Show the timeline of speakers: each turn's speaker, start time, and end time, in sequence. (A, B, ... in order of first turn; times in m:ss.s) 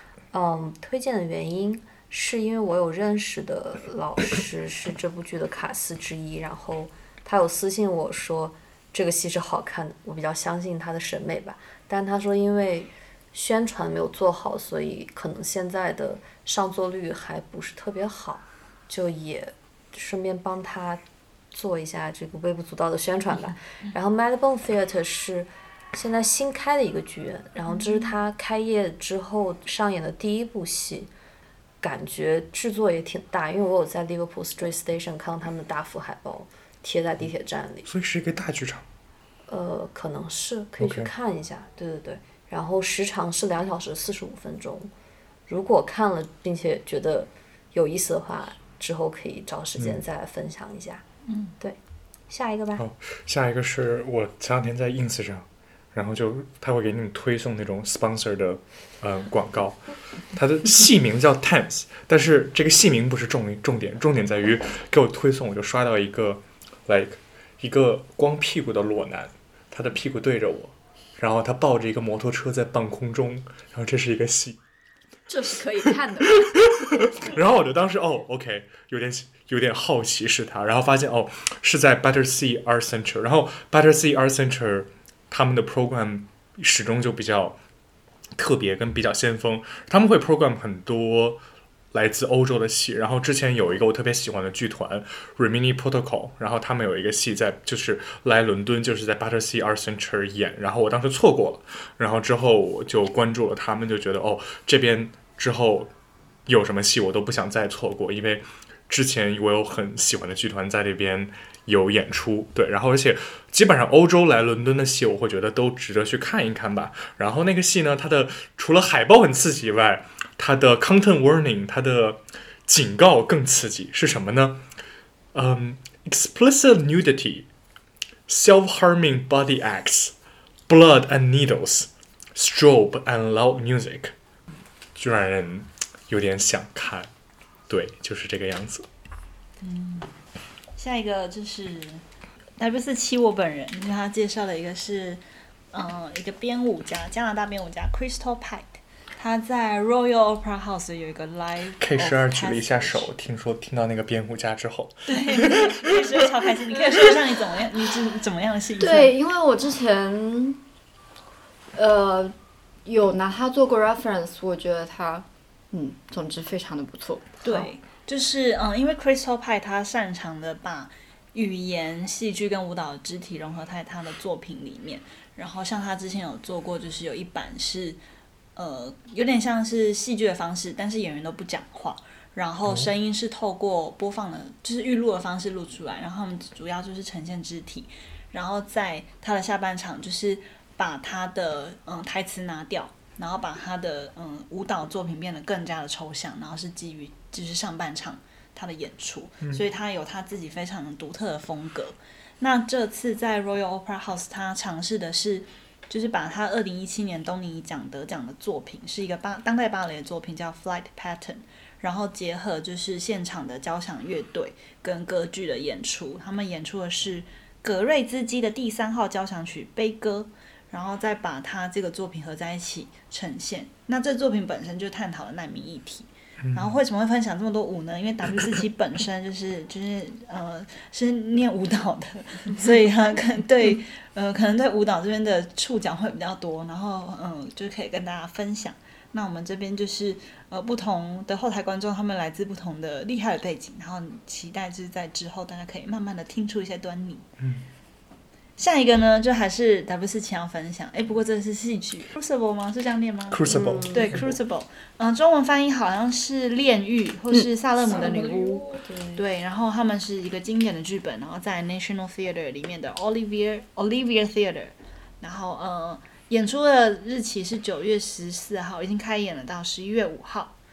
0:00.3-0:31.1 A
0:31.8-0:37.9 A
0:37.8-0:38.8 B
0:39.5-0:44.9 A
0:40.8-0:41.1 B
0:45.5-0:51.0 A
0:52.3-0:52.8 A
0:52.8-1:14.6 B
1:15.3-1:17.0 C
1:16.7-1:27.6 B
1:28.4-1:45.9 B
1:46.4-2:04.6 B
2:05.3-2:07.5 B
2:08.3-2:10.1 B
2:10.7-2:14.1 B
2:14.9-2:17.1 B
2:17.7-2:18.8 B
2:19.6-2:20.1 D
2:20.7-2:22.0 D
2:22.6-2:33.1 D
2:31.8-2:35.8 B
2:35.1-2:39.1 D
2:38.8-2:40.6 C
2:41.7-2:42.3 C
2:42.8-2:47.4 C
2:47.4-2:58.0 D
2:58.6-4:07.2 D
3:46.4-3:46.8 B
4:08.6-4:30.5 D
4:13.3-4:14.4 B
4:13.5-4:14.2 A
4:17.8-4:19.2 A